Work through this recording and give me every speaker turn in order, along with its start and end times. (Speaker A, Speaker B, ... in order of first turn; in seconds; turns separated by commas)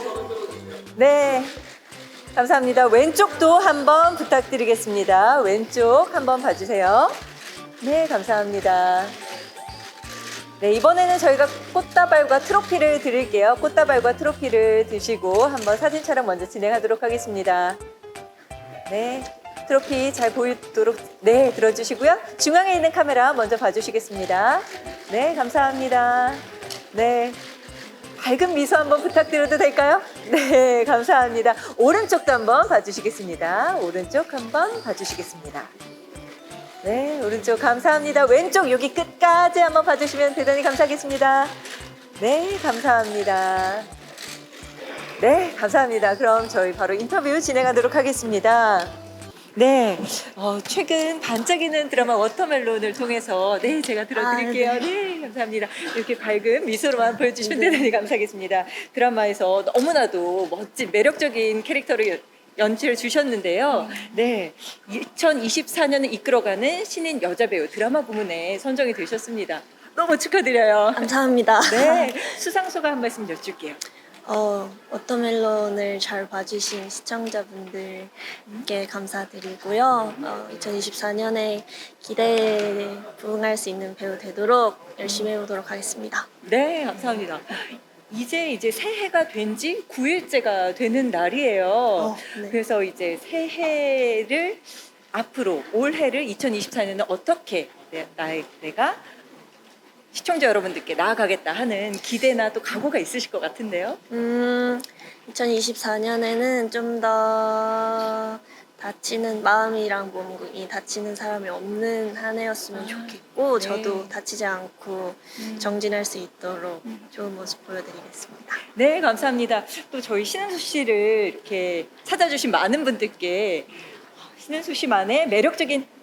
Speaker A: 0.9-1.6, Speaker A: 2.3-7.2, Speaker A: 7.8-9.2, Speaker A: 10.6-17.8, Speaker A: 18.9-27.4, Speaker A: 28.2-35.7, Speaker A: 36.8-41.6, Speaker A: 42.2-43.9, Speaker A: 45.2-48.9, Speaker A: 49.5-73.8, Speaker B: 54.1-54.9, Speaker B: 57.4-57.9, Speaker B: 71.0-72.1, Speaker B: 74.2-86.3, Speaker A: 86.4-99.0, Speaker B: 92.0-92.6, Speaker A: 100.1-104.0, Speaker B: 104.1-118.6, Speaker A: 112.7-114.1, Speaker A: 115.4-115.8, Speaker A: 118.8-123.7, Speaker A: 124.3-125.9